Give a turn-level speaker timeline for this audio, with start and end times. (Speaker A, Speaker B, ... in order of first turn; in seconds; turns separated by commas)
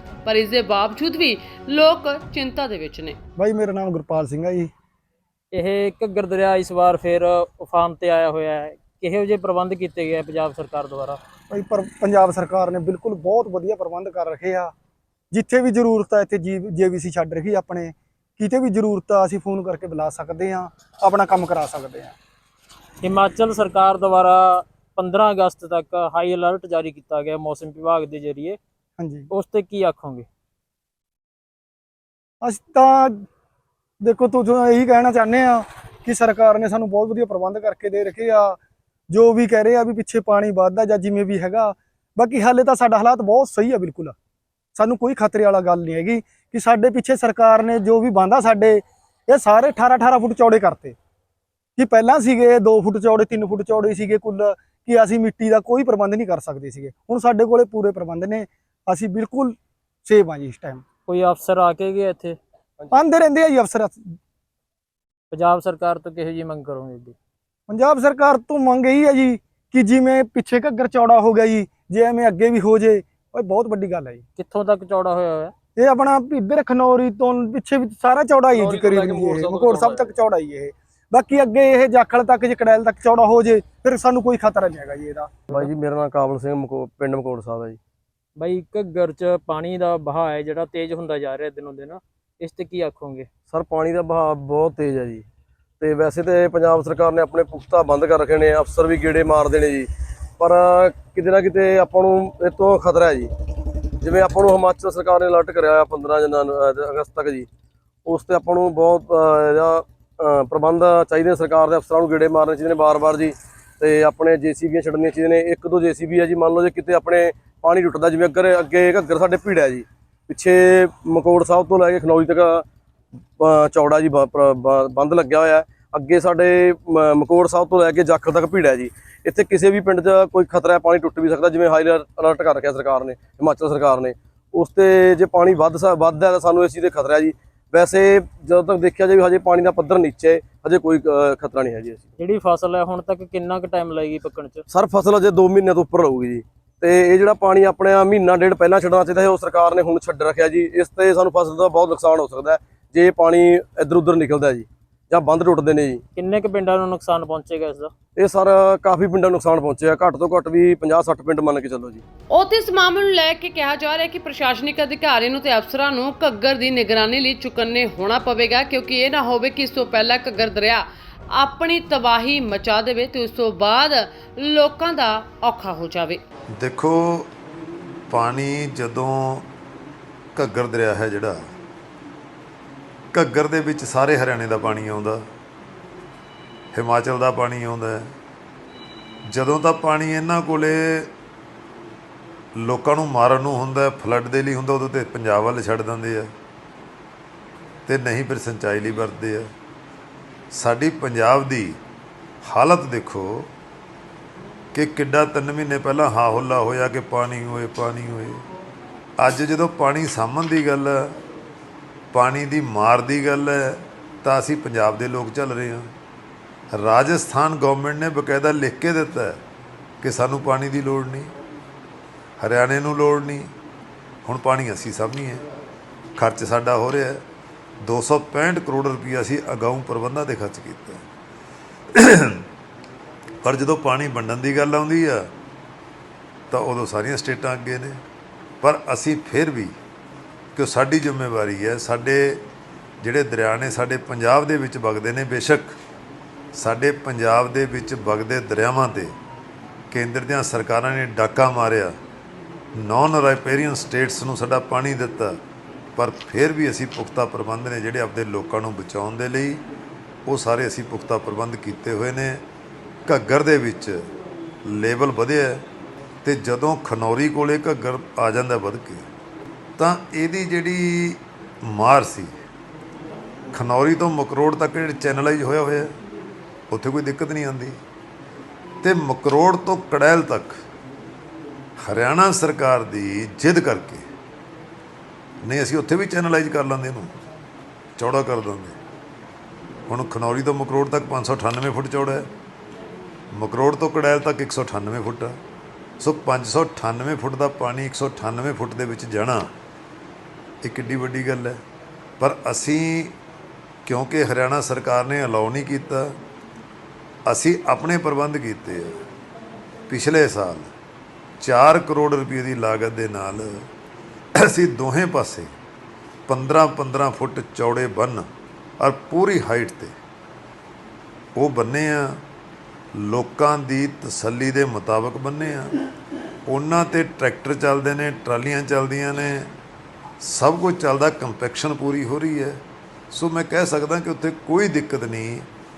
Speaker A: 0.2-3.2, Speaker B: 3.4-4.7, Speaker C: 5.5-11.2, Speaker B: 11.5-14.7, Speaker B: 15.3-22.1, Speaker C: 23.0-28.6, Speaker B: 29.0-29.3, Speaker C: 29.3-30.3, Speaker B: 32.4-33.2, Speaker B: 34.0-38.6, Speaker B: 39.1-44.1, Speaker B: 44.8-51.0, Speaker B: 51.8-60.8, Speaker C: 61.1-62.4, Speaker B: 62.9-64.1, Speaker C: 65.3-67.2, Speaker B: 67.7-74.2, Speaker C: 74.4-75.5, Speaker B: 75.8-85.3, Speaker D: 78.5-80.2, Speaker D: 85.5-87.8, Speaker C: 88.4-93.3, Speaker D: 93.5-95.2, Speaker D: 95.8-107.5, Speaker D: 108.0-122.7, Speaker D: 123.4-142.1, Speaker C: 142.2-144.6, Speaker D: 144.7-156.0, Speaker C: 156.1-157.9, Speaker D: 158.2-162.0, Speaker A: 162.3-176.2, Speaker E: 176.6-177.3, Speaker E: 178.1-179.4, Speaker E: 180.3-181.4, Speaker E: 183.1-185.2, Speaker E: 186.7-188.1, Speaker E: 189.3-191.1, Speaker E: 192.6-196.3, Speaker E: 197.8-199.5, Speaker E: 200.5-201.8, Speaker E: 202.4-203.5, Speaker E: 204.7-208.4, Speaker E: 209.2-211.2, Speaker E: 212.1-215.9, Speaker E: 216.7-219.4, Speaker E: 220.0-221.3, Speaker E: 222.4-223.5, Speaker E: 224.2-225.4, Speaker E: 226.2-227.2, Speaker E: 227.8-231.0, Speaker E: 231.9-232.4, Speaker E: 233.4-235.3, Speaker E: 236.5-238.0, Speaker E: 238.6-239.7, Speaker E: 240.5-242.4, Speaker E: 243.0-245.8, Speaker E: 246.5-249.1, Speaker E: 249.9-252.0, Speaker E: 252.7-255.4, Speaker E: 255.9-259.6, Speaker E: 260.2-262.4, Speaker E: 263.1-264.0, Speaker E: 264.6-265.6, Speaker E: 266.2-269.1, Speaker E: 269.8-272.3, Speaker E: 273.5-275.9, Speaker E: 276.7-277.8, Speaker E: 278.8-280.6, Speaker E: 281.8-284.0, Speaker E: 285.4-287.1, Speaker E: 288.0-288.8, Speaker E: 289.9-292.3, Speaker E: 293.3-295.4, Speaker E: 296.0-299.5, Speaker E: 300.6-301.6, Speaker E: 302.2-303.1, Speaker E: 303.9-306.1, Speaker E: 307.2-309.0, Speaker E: 309.9-310.7, Speaker E: 311.4-313.6, Speaker E: 314.4-315.5, Speaker E: 316.3-318.3, Speaker E: 318.8-319.9, Speaker E: 321.4-322.2, Speaker E: 323.0-325.7, Speaker E: 326.4-329.5, Speaker E: 330.2-335.5